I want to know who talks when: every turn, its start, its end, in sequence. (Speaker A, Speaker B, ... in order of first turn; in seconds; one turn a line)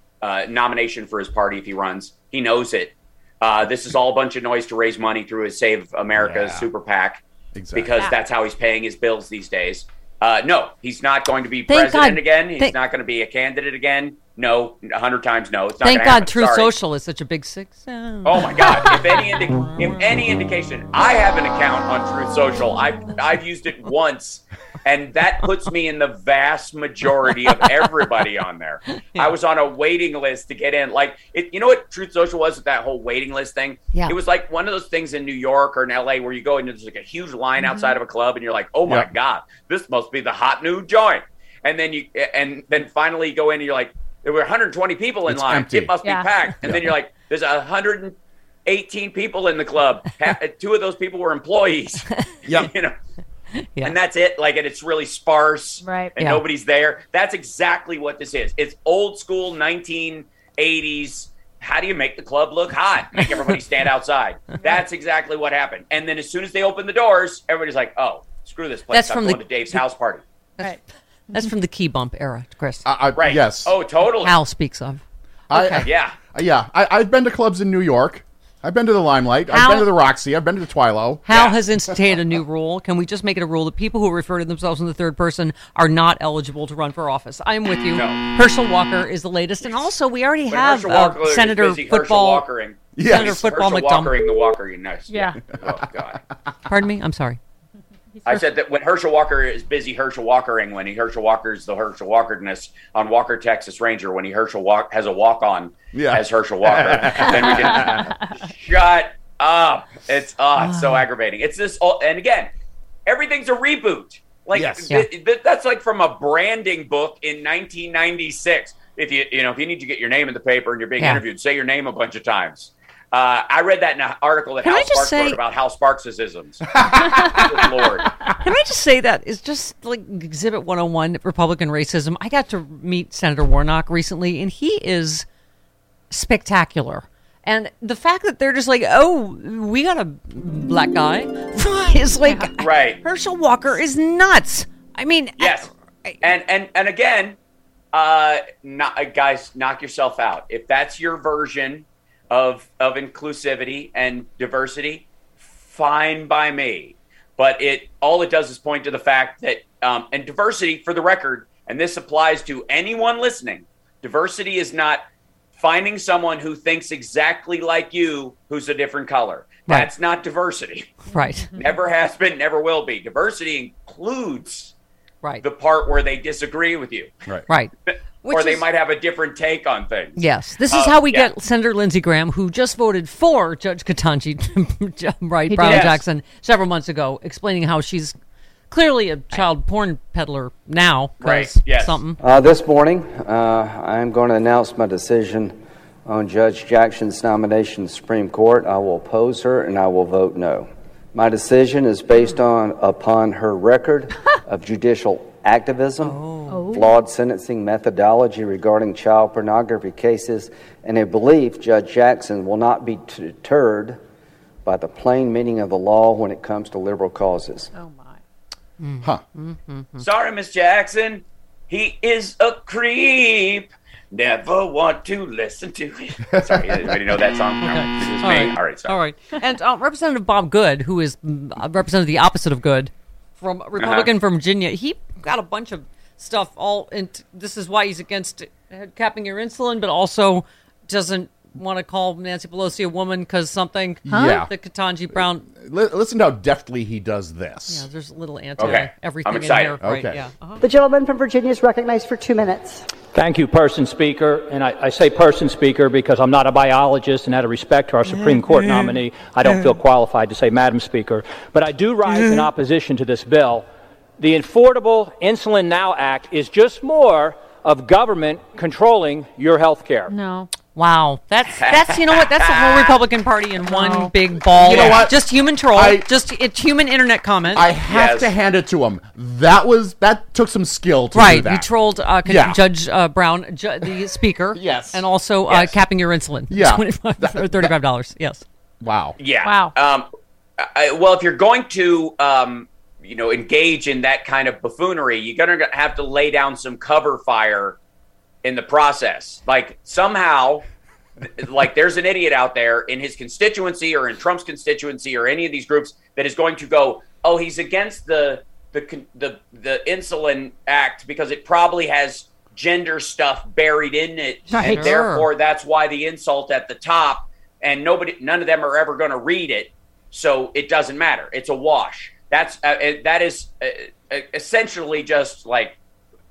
Speaker A: 0.2-16.7
Speaker B: 6.2-6.7
Speaker B: 7.5-7.9
Speaker C: 11.7-12.7
Speaker C: 15.8-20.0
Speaker A: 18.2-52.9
Speaker C: 27.3-27.9
Speaker C: 28.9-29.3
Speaker D: 37.6-38.0
Speaker B: 45.3-46.0
Speaker D: 46.0-46.4
Speaker B: 46.6-47.0
Speaker B: 52.5-52.7
Speaker A: 53.8-70.2
Speaker D: 55.8-56.1
Speaker C: 68.9-69.8
Speaker C: 71.3-72.9
Speaker B: 72.8-73.8
Speaker A: 73.2-74.3
Speaker C: 74.1-75.9
Speaker B: 75.5-81.2
Speaker A: 75.8-76.2
Speaker C: 79.5-80.0
Speaker C: 81.3-92.4
Speaker A: 81.3-81.6
Speaker A: 87.9-88.2
Speaker A: 89.6-89.9
Speaker A: 90.5-96.2
Speaker B: 92.9-93.4
Speaker C: 93.0-94.2
Speaker D: 95.1-95.4
Speaker B: 95.5-95.8
Speaker C: 96.7-97.4
Speaker A: 98.2-112.5
Speaker B: 105.9-108.1
Speaker A: 113.0-128.1
Speaker B: 114.5-115.0
Speaker C: 121.0-121.2
Speaker C: 124.6-125.4
Speaker B: 126.7-128.3
Speaker C: 128.4-135.2
Speaker C: 136.1-146.2
Speaker A: 142.6-143.0
Speaker A: 145.4-147.3
Speaker A: 147.9-165.0
Speaker A: 165.5-171.0
Speaker C: 171.1-171.6
Speaker A: 171.6-174.7
Speaker A: 175.4-177.1
Speaker A: 177.9-181.3
Speaker C: 178.2-178.6
Speaker C: 180.2-188.1
Speaker A: 185.5-186.0
Speaker C: 188.7-192.2
Speaker A: 191.2-192.0
Speaker E: 192.2-214.0
Speaker C: 206.0-206.6
Speaker D: 206.5-206.9
Speaker E: 214.6-217.7
Speaker D: 217.7-218.2
Speaker C: 218.8-220.1
Speaker A: 220.0-228.9
Speaker B: 226.3-226.9
Speaker C: 227.6-245.5
Speaker A: 233.8-234.1
Speaker B: 244.0-244.5
Speaker B: 245.1-247.9
Speaker C: 247.7-250.6
Speaker A: 248.6-249.8
Speaker B: 249.8-250.2
Speaker F: 250.6-252.8
Speaker G: 253.1-263.7
Speaker C: 258.1-259.8
Speaker G: 264.2-270.1
Speaker D: 270.1-270.5
Speaker C: 270.7-277.6
Speaker A: 271.5-273.0
Speaker D: 273.7-274.8
Speaker B: 274.5-276.1
Speaker A: 274.7-275.0
Speaker B: 277.5-282.6
Speaker A: 277.9-278.3
Speaker C: 281.1-288.4
Speaker B: 284.5-285.0
Speaker A: 285.5-285.7
Speaker B: 286.5-287.7
Speaker B: 288.8-289.1
Speaker A: 289.2-290.1
Speaker D: 289.4-289.7
Speaker A: 290.6-297.8
Speaker A: 298.4-300.6
Speaker A: 301.2-325.8
Speaker D: 314.5-314.9
Speaker C: 314.6-315.3